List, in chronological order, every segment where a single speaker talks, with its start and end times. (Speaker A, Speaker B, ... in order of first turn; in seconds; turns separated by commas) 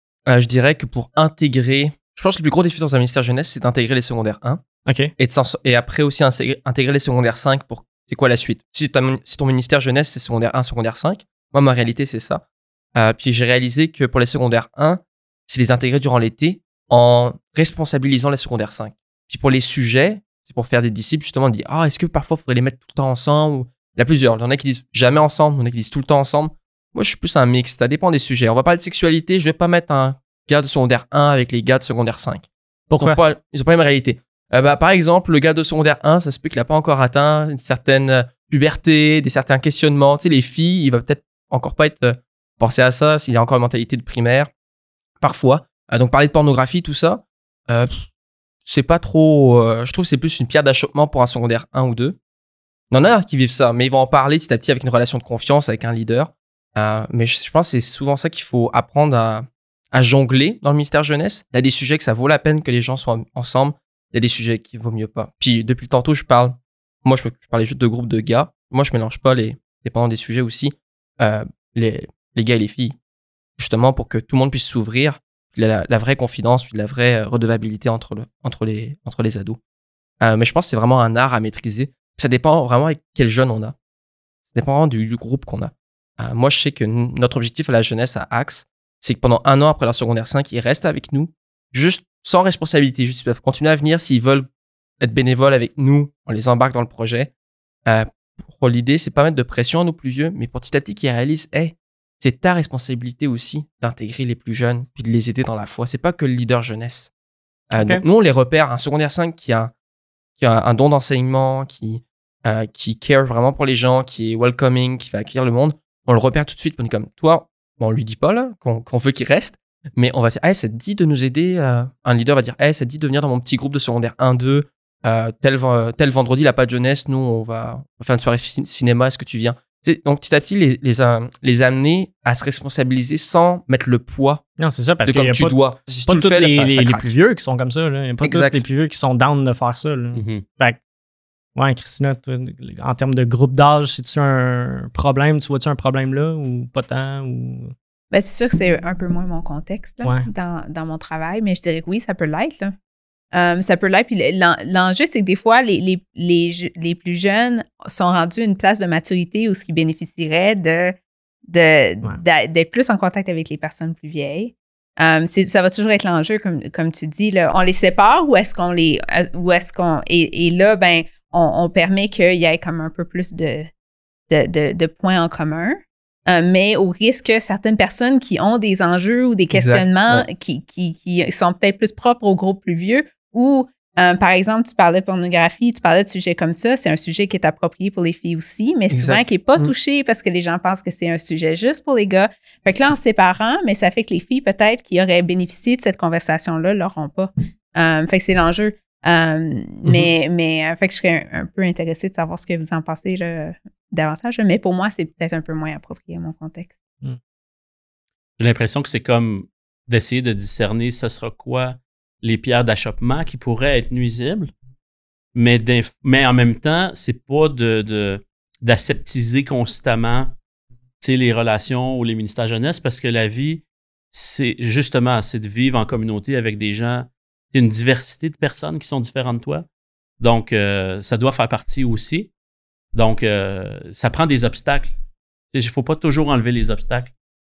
Speaker A: 0.3-4.6, Speaker B: 4.9-5.1, Speaker A: 5.2-12.4, Speaker A: 12.9-32.5, Speaker B: 32.9-33.2, Speaker A: 33.0-44.5, Speaker A: 45.2-48.0, Speaker A: 48.7-52.2, Speaker A: 52.9-73.0, Speaker A: 73.6-79.6, Speaker A: 80.2-83.8, Speaker A: 84.5-94.5, Speaker A: 95.0-97.3, Speaker A: 97.9-107.1, Speaker A: 107.7-109.7, Speaker B: 107.8-108.0, Speaker A: 110.4-134.4, Speaker B: 134.6-140.8, Speaker A: 135.1-137.1, Speaker A: 138.2-138.6, Speaker C: 140.2-140.4, Speaker B: 141.6-147.7, Speaker D: 148.1-152.8, Speaker B: 150.0-150.3, Speaker D: 153.3-173.7, Speaker D: 174.3-206.8, Speaker A: 179.5-180.3, Speaker A: 188.9-189.7, Speaker C: 208.4-214.5, Speaker C: 215.3-220.3, Speaker C: 221.0-229.7, Speaker C: 230.2-232.3, Speaker C: 232.9-234.9, Speaker C: 235.5-237.1